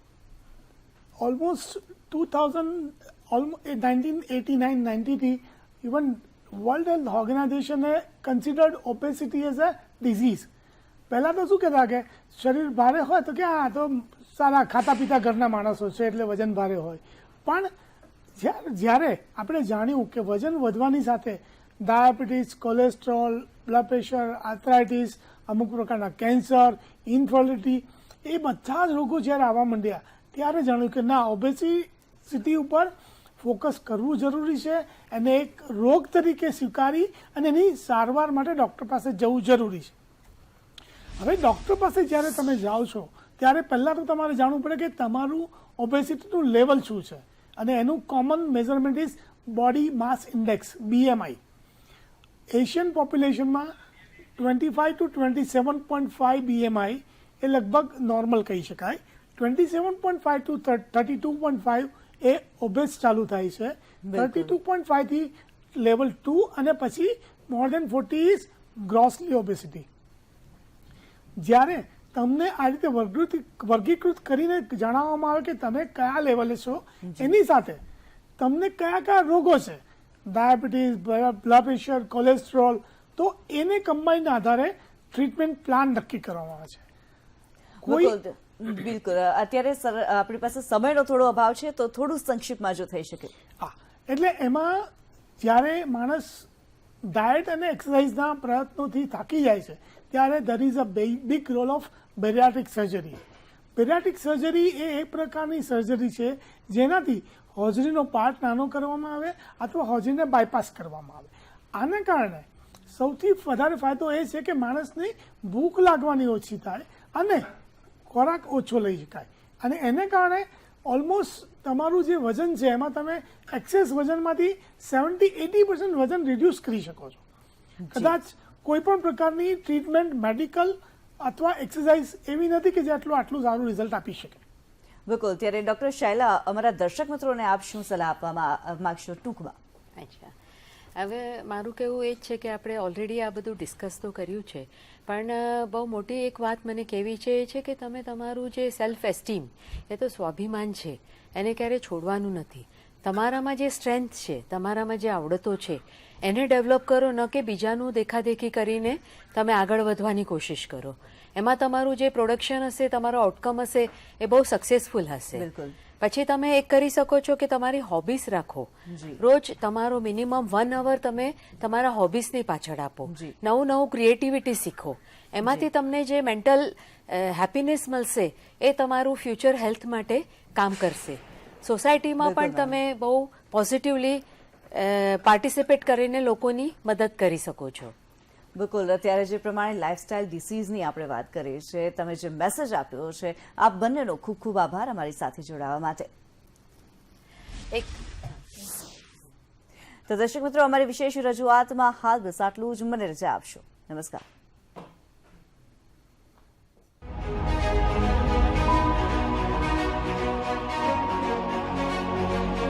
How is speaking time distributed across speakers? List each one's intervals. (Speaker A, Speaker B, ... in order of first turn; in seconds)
Speaker A: 1.2-10.5, 11.1-17.7, 18.4-39.9, 41.2-51.4, 52.5-53.7, 54.4-69.8, 71.4-77.8, 78.4-86.8, 87.8-88.2, 93.6-94.9, 95.4-96.5, 97.1-103.2, 103.8-117.5, 118.1-127.2, 127.9-134.4
Speaker B: 64.0-64.6, 77.1-77.3, 87.8-93.3, 127.8-128.2, 135.1-139.6, 165.3-165.8, 168.8-169.2, 173.1-173.3, 182.2-182.8, 188.6-196.1, 200.1-204.2
Speaker C: 140.0-140.3, 140.9-165.4, 166.0-187.9, 197.7-198.3